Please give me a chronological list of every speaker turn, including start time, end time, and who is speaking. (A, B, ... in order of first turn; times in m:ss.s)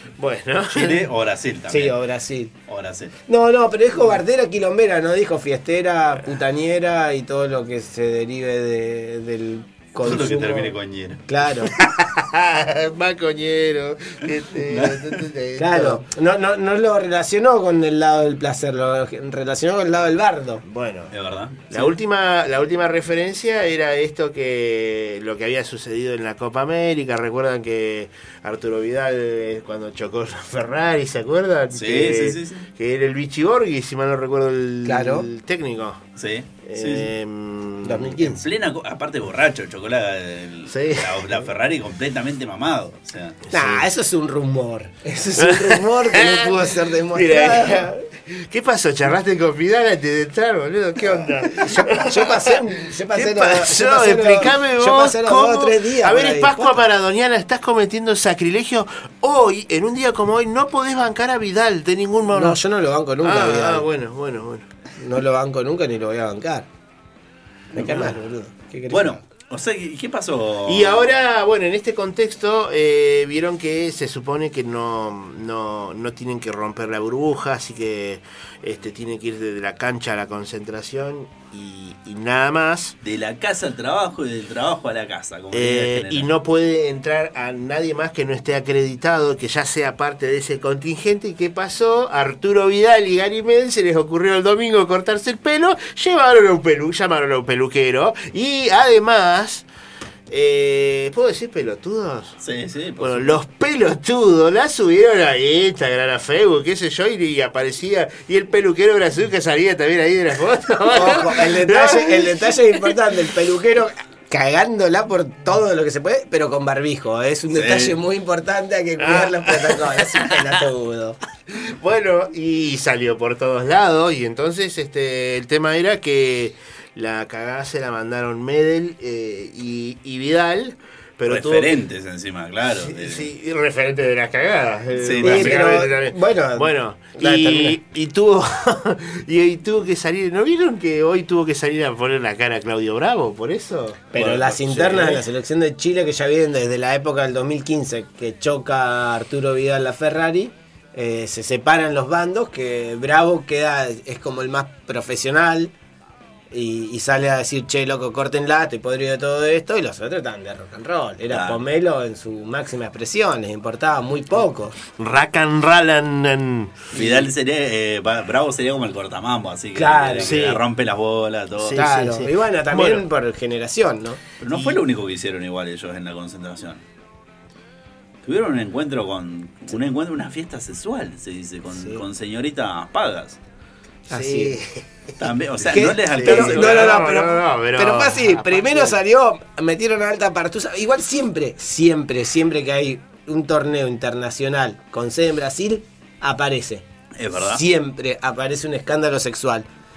0:00.2-0:01.1 A
0:00.7-0:01.9 B
0:01.7-0:02.5 C
0:02.7-0:03.1 B
0:03.3-0:10.8 C
0:10.0-0:11.3 B
0:11.3-0:11.7 C
0:11.8-0:16.0 A
0:14.7-0:15.2 B
0:15.6-0:20.6 C
0:20.6-0:21.1 A
0:21.1-0:21.9 B
0:21.7-0:36.0 A
0:31.7-0:32.7 B
0:34.8-0:35.3 C
0:36.2-0:37.1 B
0:36.6-0:38.2 A
0:37.8-0:38.4 C
0:38.2-0:43.4 B
0:40.7-0:41.5 A
0:43.5-0:43.8 A
0:43.5-0:47.9 C
0:45.4-1:02.6 A
0:51.1-0:56.8 C
1:02.3-1:03.8 C
1:03.2-1:04.6 A
1:05.0-1:06.7 C
1:07.7-1:09.2 C
1:07.7-1:08.1 B
1:08.9-1:11.1 B
1:10.6-1:22.9 A
1:23.0-1:26.3 B
1:25.5-1:39.7 A
1:40.3-1:42.4 A
1:42.4-1:43.4 B
1:43.0-1:53.0 A
1:50.9-2:01.2 C
1:57.5-1:58.0 B
1:59.0-2:00.6 A
2:01.5-2:11.8 A
2:11.3-2:13.3 B
2:12.7-2:25.2 A
2:14.9-2:15.8 B
2:15.2-2:17.8 C
2:24.1-2:35.7 C
2:24.2-2:24.4 B
2:36.5-2:44.8 C
2:41.3-2:41.6 B
2:44.9-2:46.8 A
2:46.9-2:51.9 B
2:46.9-2:47.2 C
2:49.7-2:50.3 C
2:50.2-2:50.6 A
2:51.6-2:53.0 A
2:51.7-2:54.8 C
2:54.4-2:56.8 B
2:58.2-3:03.4 B
3:01.7-3:02.0 C
3:04.1-3:09.0 A
3:04.1-3:04.6 C
3:05.2-3:07.0 B
3:05.7-3:19.7 C
3:17.2-3:17.6 B